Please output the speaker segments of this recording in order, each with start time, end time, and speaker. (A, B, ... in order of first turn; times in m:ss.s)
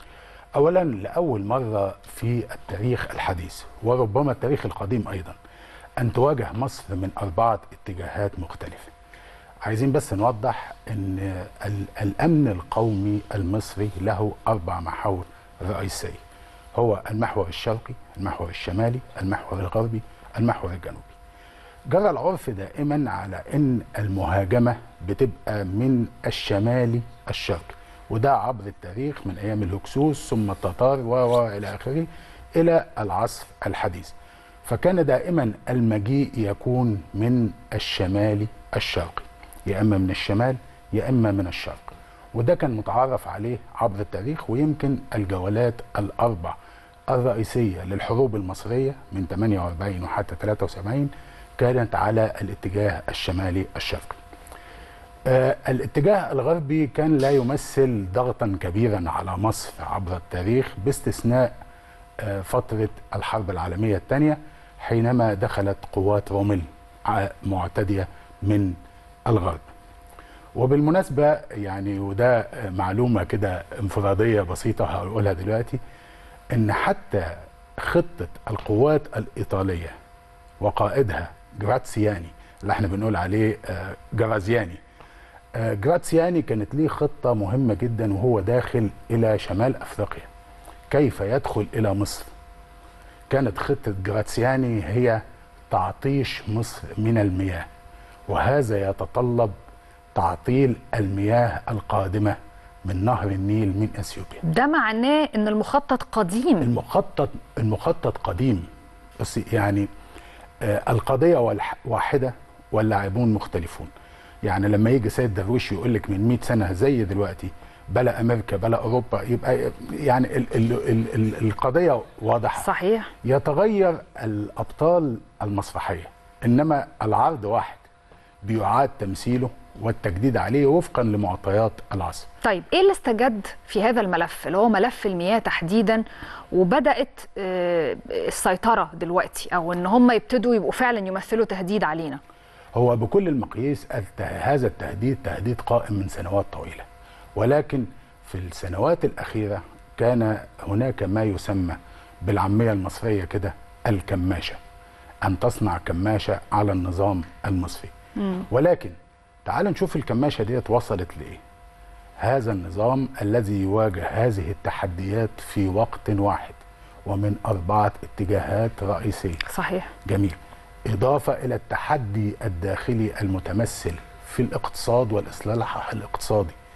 0:00.5-0:05.4 A
0:06.0-0:08.9 A
0:09.6-0:16.2 A
0:16.7-0:21.2 A
0:21.9-0:46.6 A
0:47.1-0:54.2 A
0:55.3-1:01.5 A
1:02.2-1:09.6 A
1:10.6-1:15.8 A
1:16.5-1:19.9 A
1:20.6-1:24.8 A
1:25.5-1:30.3 A
1:30.9-1:32.3 A
1:33.3-1:37.7 A
1:38.3-1:39.5 A
1:40.1-1:44.4 A
1:44.4-1:46.7 B
1:46.6-1:48.7 A
1:49.2-1:49.9 A
1:50.6-1:53.9 A
1:54.4-2:02.7 A
2:02.6-2:03.1 B
2:03.2-2:07.8 A
2:08.4-2:12.3 A
2:12.4-2:22.2 B
2:22.7-2:34.6 A
2:35.2-2:37.9 A
2:38.5-2:41.4 A
2:42.2-2:49.4 A
2:49.5-2:49.9 B
2:50.0-2:56.6 A